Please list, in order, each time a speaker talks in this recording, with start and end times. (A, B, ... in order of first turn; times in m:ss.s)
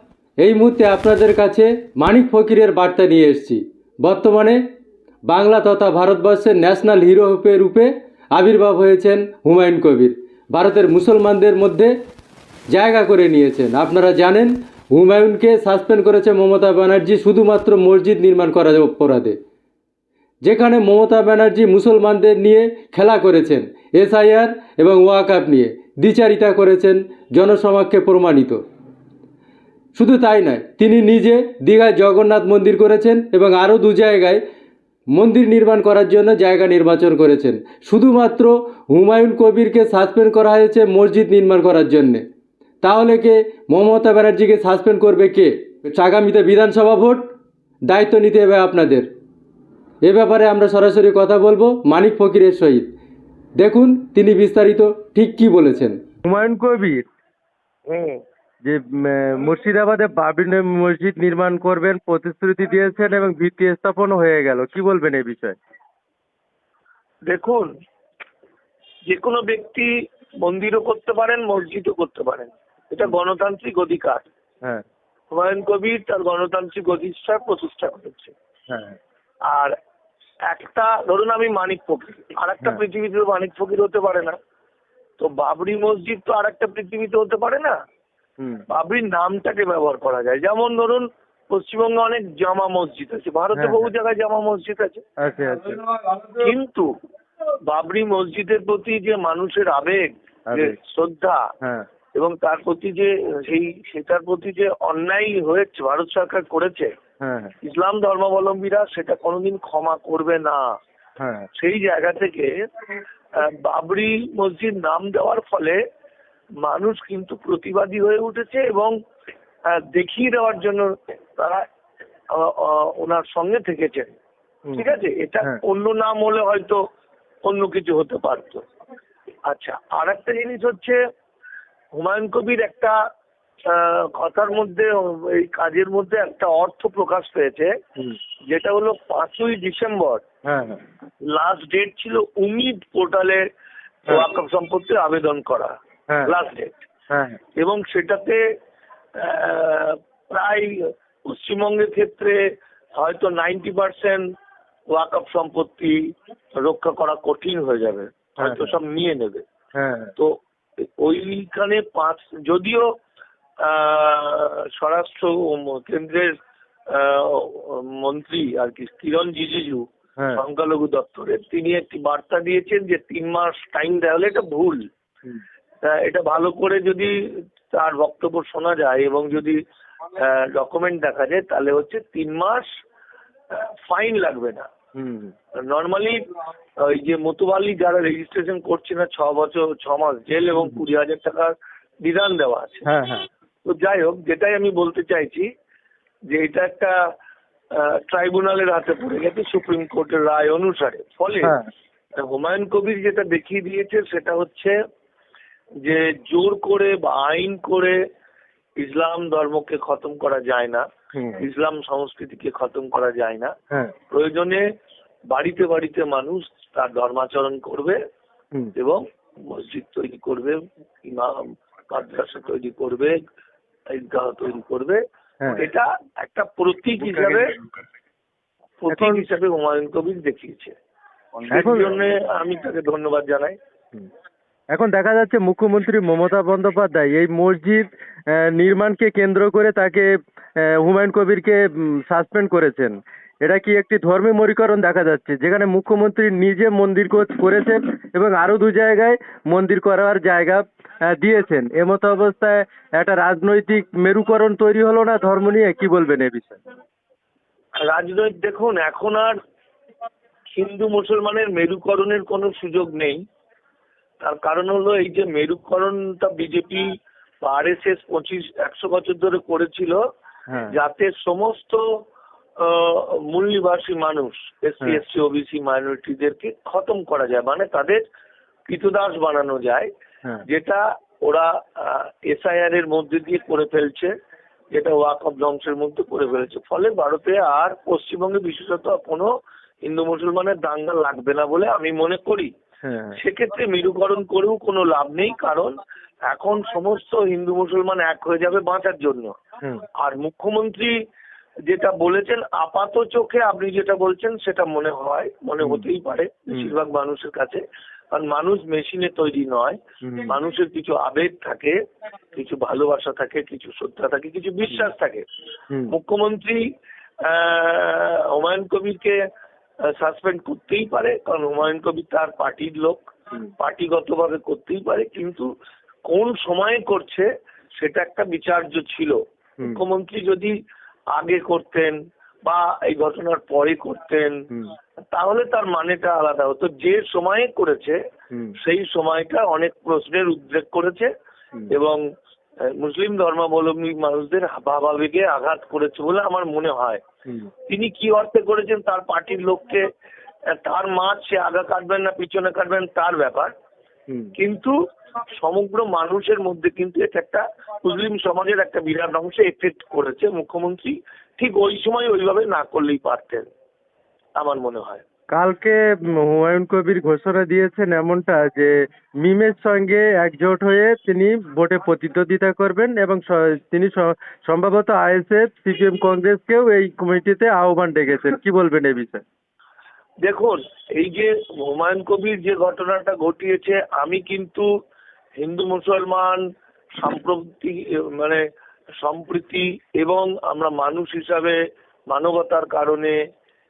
0:00.4-0:04.6 A
0:05.3-0:11.9 A
0:12.7-0:19.4 A
0:20.4-0:28.6 A
0:29.9-0:34.4 A
0:35.1-0:42.2 A
0:42.8-0:47.3 A
0:47.9-0:49.1 A
0:50.0-0:52.9 A
0:53.6-0:56.0 A
0:56.2-0:57.0 B
0:57.9-0:58.2 C
0:58.6-1:05.6 B
1:07.2-1:07.7 C
1:09.1-1:09.9 C
1:10.4-1:14.2 C
1:15.3-1:18.3 C
1:18.7-1:19.0 B
1:19.5-1:19.7 C
1:20.5-1:24.3 C
1:25.2-1:27.7 C
1:28.7-1:35.0 C
1:33.6-1:33.9 B
1:35.2-1:35.8 B
1:36.4-1:36.9 C
1:37.7-1:41.5 C
1:40.5-1:40.8 B
1:42.2-1:46.9 C
1:47.2-1:47.5 B
1:47.6-1:50.6 C
1:51.2-1:51.5 B
1:51.6-1:52.5 C
1:53.4-1:55.8 C
1:56.6-1:58.9 C
1:59.7-2:01.6 C
2:02.3-2:04.1 C
2:04.8-2:06.8 C
2:07.4-2:08.6 C
2:09.5-2:11.0 C
2:11.9-2:13.0 C
2:13.7-2:17.7 C
2:18.5-2:20.2 C
2:20.4-2:20.8 B
2:21.3-2:23.4 C
2:24.1-2:25.7 C
2:26.2-2:26.7 C
2:27.1-2:27.4 B
2:27.6-2:28.4 C
2:29.2-2:30.7 C
2:31.3-2:32.4 C
2:33.0-2:34.2 C
2:34.9-2:36.0 C
2:36.6-2:39.4 C
2:38.4-2:38.7 B
2:39.8-2:40.1 B
2:41.0-2:42.8 C
2:43.6-2:46.3 C
2:46.9-2:54.8 C
2:55.9-2:57.1 C
2:57.7-2:59.6 C
3:00.2-3:02.7 C
3:03.5-3:04.6 C
3:04.9-3:05.3 B
3:05.6-3:06.2 C
3:06.8-3:12.8 C
3:12.8-3:13.2 B
3:13.6-3:15.5 C
3:16.3-3:16.9 C
3:17.8-3:21.6 C
3:22.2-3:24.7 C
3:25.8-3:28.0 C
3:28.8-3:30.8 C
3:31.1-3:31.4 B
3:31.4-3:33.5 C
3:34.1-3:34.6 C
3:35.3-3:38.0 C
3:38.8-3:41.4 C
3:41.9-3:43.2 C
3:43.9-3:45.0 C
3:45.6-3:47.5 C
3:47.0-3:47.5 B
3:48.8-3:50.7 C
3:48.9-3:49.2 B
3:51.5-3:53.5 C
3:51.5-3:51.9 B
3:54.7-3:57.8 B
3:58.6-4:00.1 B
4:00.6-4:16.6 B
4:17.8-4:19.3 C
4:20.5-4:23.2 C
4:24.2-4:26.9 C
4:27.4-4:30.0 C
4:30.7-4:31.8 C
4:32.6-4:38.0 C
4:38.7-4:39.9 C
4:40.5-4:44.1 C
4:44.7-4:49.3 C
4:49.8-4:52.5 C
4:52.8-4:53.2 B
4:53.2-4:55.7 C
4:56.3-4:59.3 C
5:00.0-5:00.9 C
5:01.7-5:11.8 C
5:10.0-5:10.3 B
5:12.3-5:15.2 C
5:15.9-5:16.6 C
5:17.3-5:19.2 C
5:20.0-5:23.0 C
5:23.6-5:25.5 C
5:26.1-5:27.3 C
5:27.8-5:30.5 C
5:31.1-5:34.4 C
5:35.1-5:38.0 C
5:38.6-5:41.1 C
5:41.7-5:42.0 C
5:42.8-5:47.0 C
5:47.7-5:49.8 C
5:50.5-5:53.5 C
5:54.4-5:54.7 C
5:55.4-6:03.5 C
6:04.4-6:05.0 C
6:05.3-6:08.7 B
6:09.2-6:19.2 B
6:20.2-6:24.7 C
6:25.4-6:26.4 C
6:27.0-6:28.4 C
6:29.0-6:31.6 C
6:32.1-6:33.2 C